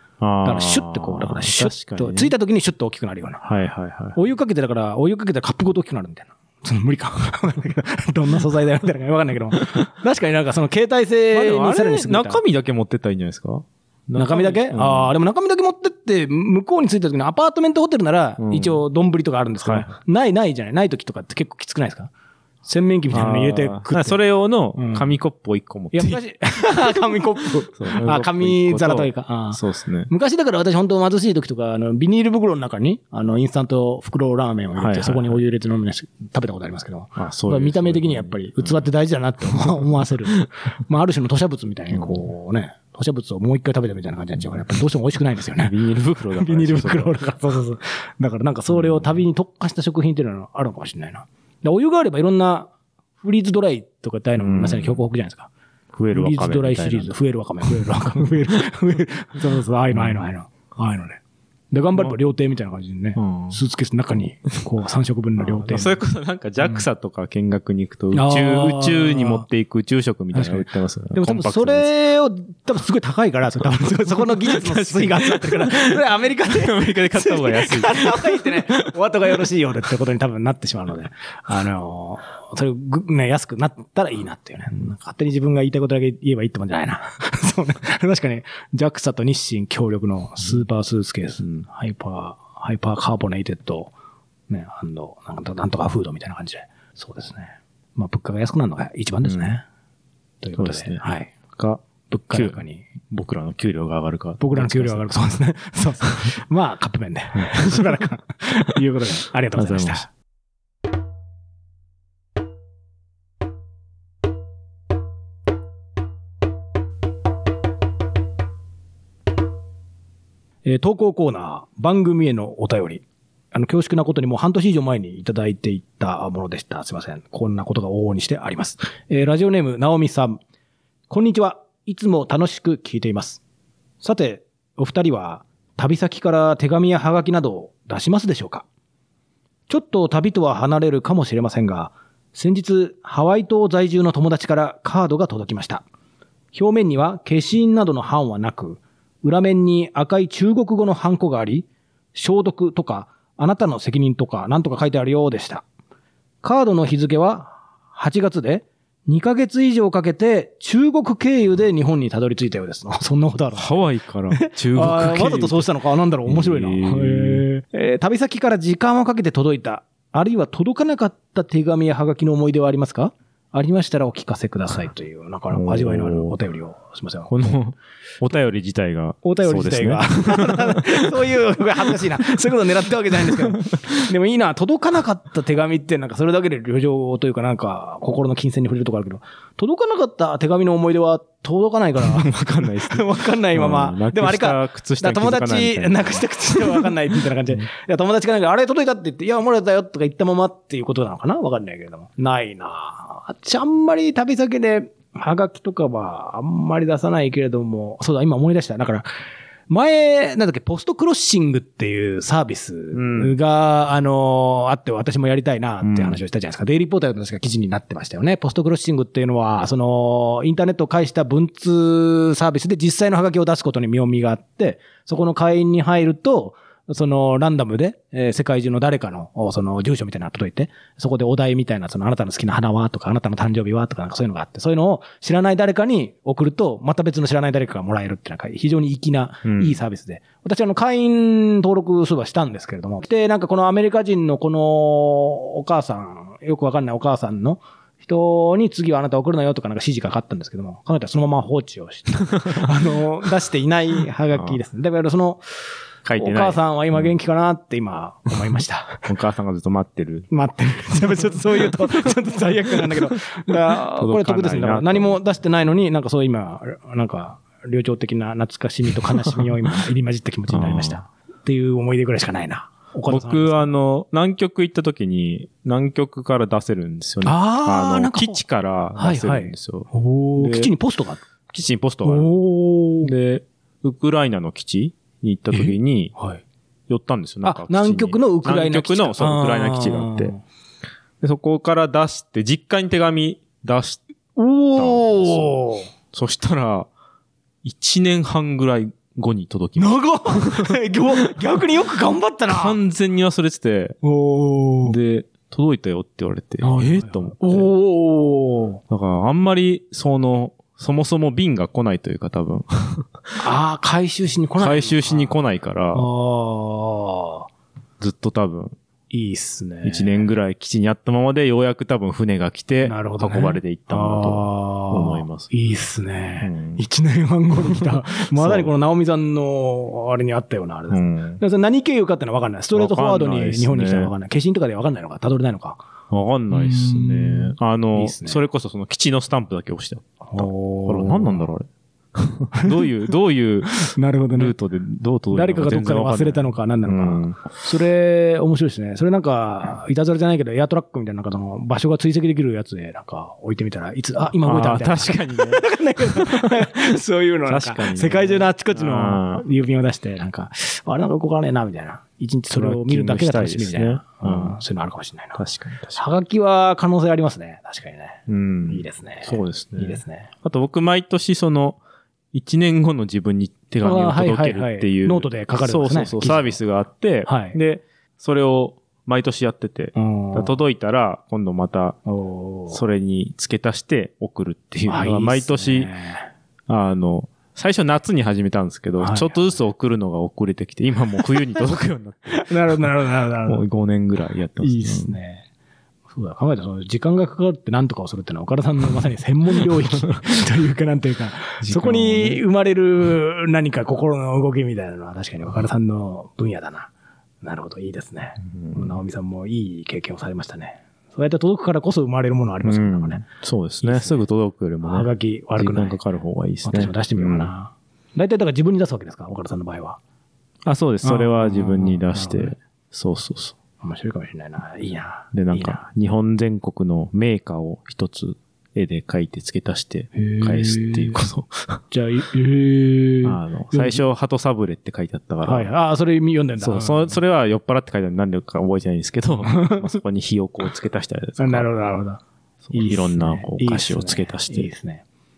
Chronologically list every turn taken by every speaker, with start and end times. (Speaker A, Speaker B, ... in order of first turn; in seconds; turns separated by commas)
Speaker A: 0.2-2.3, Speaker B: 0.4-3.4, Speaker A: 3.4-4.2, Speaker B: 4.1-12.4, Speaker A: 11.3-15.1, Speaker B: 14.2-22.1, Speaker A: 18.4-18.8, Speaker A: 19.6-19.9, Speaker B: 22.6-24.2, Speaker A: 23.1-27.2, Speaker B: 24.7-25.1, Speaker B: 25.9-45.8, Speaker A: 27.7-30.1, Speaker A: 34.8-35.4, Speaker A: 37.1-38.9, Speaker A: 41.9-42.2, Speaker A: 45.6-47.1, Speaker B: 46.3-55.5, Speaker A: 54.4-55.0, Speaker A: 55.9-57.1, Speaker B: 56.1-61.2, Speaker A: 59.9-60.2, Speaker B: 61.7-66.0, Speaker A: 63.2-63.6, Speaker A: 65.4-71.9, Speaker B: 68.1-69.4, Speaker B: 70.3-93.9, Speaker A: 74.3-78.9, Speaker B: 94.5-99.6, Speaker A: 99.2-99.5, Speaker B: 100.4-101.3, Speaker A: 100.6-105.3, Speaker B: 102.1-102.9, Speaker B: 104.4-110.1, Speaker A: 107.4-107.9, Speaker A: 109.5-110.0, Speaker B: 120.6-130.4, Speaker B: 131.1-133.4, Speaker B: 134.0-138.7, Speaker B: 139.7-145.8, Speaker B: 146.5-155.6, Speaker B: 156.4-163.7, Speaker A: 163.5-165.7, Speaker B: 164.3-177.3, Speaker A: 166.2-167.4, Speaker A: 175.5-176.3, Speaker A: 177.3-181.0, Speaker B: 179.2-209.1, Speaker A: 183.2-183.9, Speaker A: 192.0-196.9, Speaker B: 209.7-255.4, Speaker A: 212.9-213.3, Speaker A: 215.8-216.2, Speaker A: 239.4-239.8, Speaker A: 256.0-256.6, Speaker B: 256.2-259.1, Speaker A: 259.1-260.3, Speaker B: 260.3-273.7, Speaker A: 263.9-265.2, Speaker A: 270.5-271.0, Speaker A: 273.1-280.7, Speaker B: 277.2-278.4, Speaker B: 278.9-281.2, Speaker A: 281.5-282.3, Speaker B: 282.0-283.1, Speaker A: 283.0-286.1, Speaker B: 285.5-286.4, Speaker A: 286.9-290.3, Speaker B: 287.4-290.4, Speaker A: 291.2-294.0, Speaker B: 294.4-295.9, Speaker A: 294.7-295.6, Speaker A: 296.1-296.9, Speaker A: 297.6-300.8, Speaker B: 299.8-302.8, Speaker A: 302.5-304.0, Speaker B: 304.0-304.9, Speaker A: 304.8-307.7, Speaker B: 306.6-308.8, Speaker A: 308.9-313.1, Speaker B: 313.4-315.3, Speaker A: 314.6-316.1, Speaker B: 315.9-317.5, Speaker A: 318.0-318.8, Speaker B: 319.1-320.2, Speaker A: 319.8-325.5, Speaker B: 322.8-335.8, Speaker A: 326.4-326.8, Speaker A: 327.8-328.7, Speaker A: 330.9-331.4, Speaker A: 332.7-334.1, Speaker A: 336.1-347.5, Speaker B: 336.5-338.4, Speaker B: 340.3-341.5, Speaker B: 342.5-342.8, Speaker B: 343.7-344.5, Speaker B: 345.3-365.4, Speaker A: 354.4-356.8, Speaker A: 357.5-359.4, Speaker A: 362.5-364.6, Speaker A: 365.4-366.0, Speaker B: 365.9-370.3, Speaker A: 368.3-371.8, Speaker A: 372.3-382.0, Speaker B: 373.8-376.6, Speaker B: 377.2-377.6, Speaker B: 379.9-380.6, Speaker B: 382.1-382.8, Speaker A: 382.7-385.9, Speaker B: 384.9-386.3, Speaker A: 386.7-392.9, Speaker B: 389.0-389.4, Speaker B: 392.3-393.6, Speaker A: 393.4-395.1, Speaker B: 394.6-395.4, Speaker B: 396.1-406.9, Speaker A: 401.6-402.4, Speaker B: 407.4-413.2, Speaker A: 408.5-408.9, Speaker A: 412.6-417.5, Speaker B: 413.8-414.2, Speaker B: 414.8-416.0, Speaker B: 416.6-420.0, Speaker A: 420.6-423.6, Speaker B: 421.0-422.6, Speaker B: 423.8-425.8, Speaker A: 425.3-431.8, Speaker B: 430.1-431.2, Speaker B: 431.9-434.0, Speaker A: 433.2-435.7, Speaker B: 435.4-437.2, Speaker A: 436.6-441.7, Speaker B: 439.5-439.8, Speaker B: 441.4-442.2, Speaker A: 442.6-444.7, Speaker B: 442.7-445.0